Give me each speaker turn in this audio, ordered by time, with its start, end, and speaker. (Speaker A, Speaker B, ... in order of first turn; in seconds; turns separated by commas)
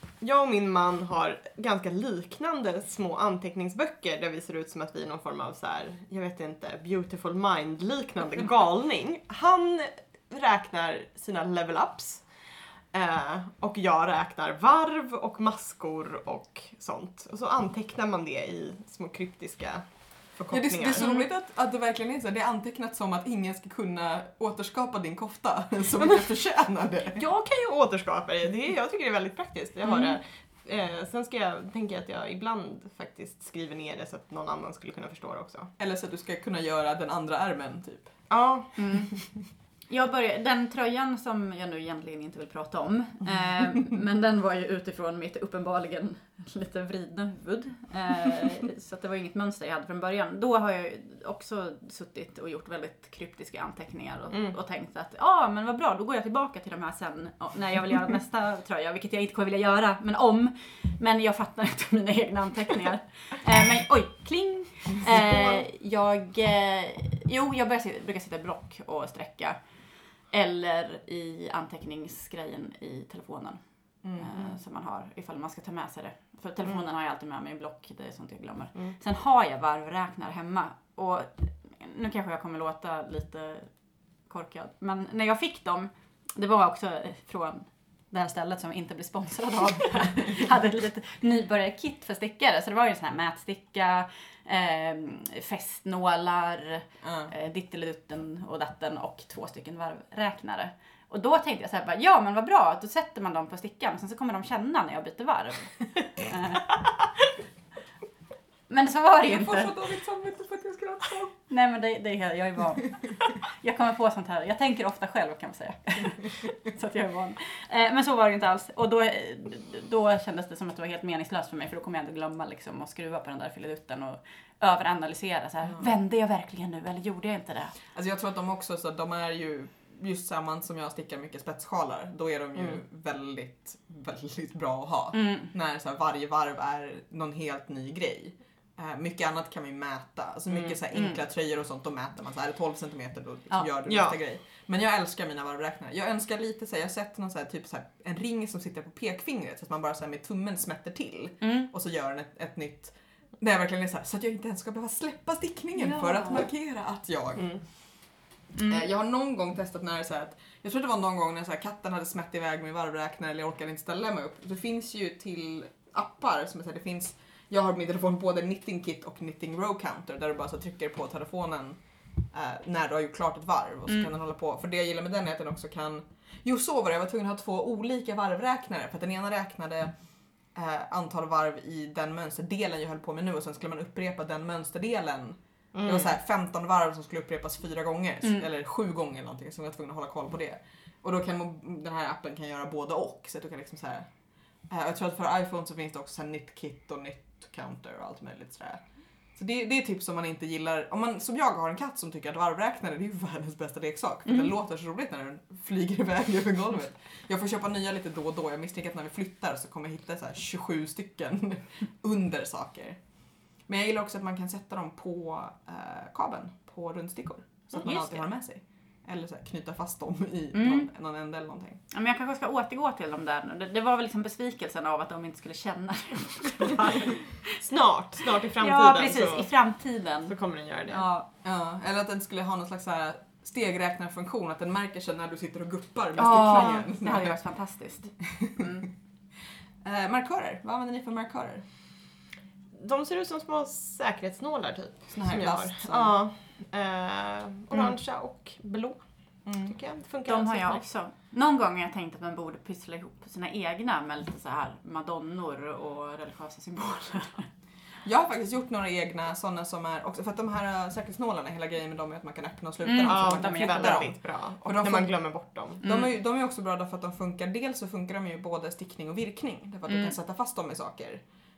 Speaker A: 0.2-21.1, Speaker B: 20.5-27.2, Speaker C: 20.9-21.3, Speaker A: 27.1-35.7, Speaker C: 29.8-30.2, Speaker B: 35.8-38.1, Speaker A: 38.3-39.1, Speaker C: 38.8-69.6, Speaker A: 54.3-54.6, Speaker A: 65.1-65.6, Speaker C: 70.3-83.7, Speaker B: 74.0-74.3, Speaker C: 84.3-106.7, Speaker B: 97.0-97.3, Speaker C: 108.7-109.7, Speaker B: 109.2-111.4, Speaker C: 111.5-127.7, Speaker B: 127.9-157.7, Speaker C: 135.1-135.5, Speaker A: 140.5-140.8, Speaker C: 140.9-141.2, Speaker A: 143.8-144.2, Speaker C: 151.4-151.7, Speaker C: 155.7-156.5, Speaker A: 157.3-157.6, Speaker C: 158.5-158.8, Speaker B: 158.6-179.9, Speaker B: 180.5-194.1, Speaker A: 185.7-186.1, Speaker B: 194.7-198.8, Speaker B: 199.3-213.0, Speaker C: 204.2-204.5, Speaker B: 213.6-221.8, Speaker C: 217.7-218.3, Speaker C: 220.5-220.9, Speaker C: 221.9-227.6, Speaker A: 227.6-229.5, Speaker C: 228.4-230.3, Speaker A: 230.2-231.0, Speaker C: 230.9-231.3, Speaker B: 231.4-237.4, Speaker C: 236.2-238.9, Speaker A: 236.5-236.8, Speaker B: 238.2-238.6, Speaker B: 239.8-241.6, Speaker A: 242.7-250.8, Speaker B: 245.1-246.2, Speaker B: 249.4-249.8, Speaker C: 250.2-257.5, Speaker B: 258.0-265.1, Speaker C: 262.8-264.0, Speaker A: 263.0-265.8, Speaker B: 265.8-271.2, Speaker C: 265.8-266.1, Speaker C: 269.9-270.1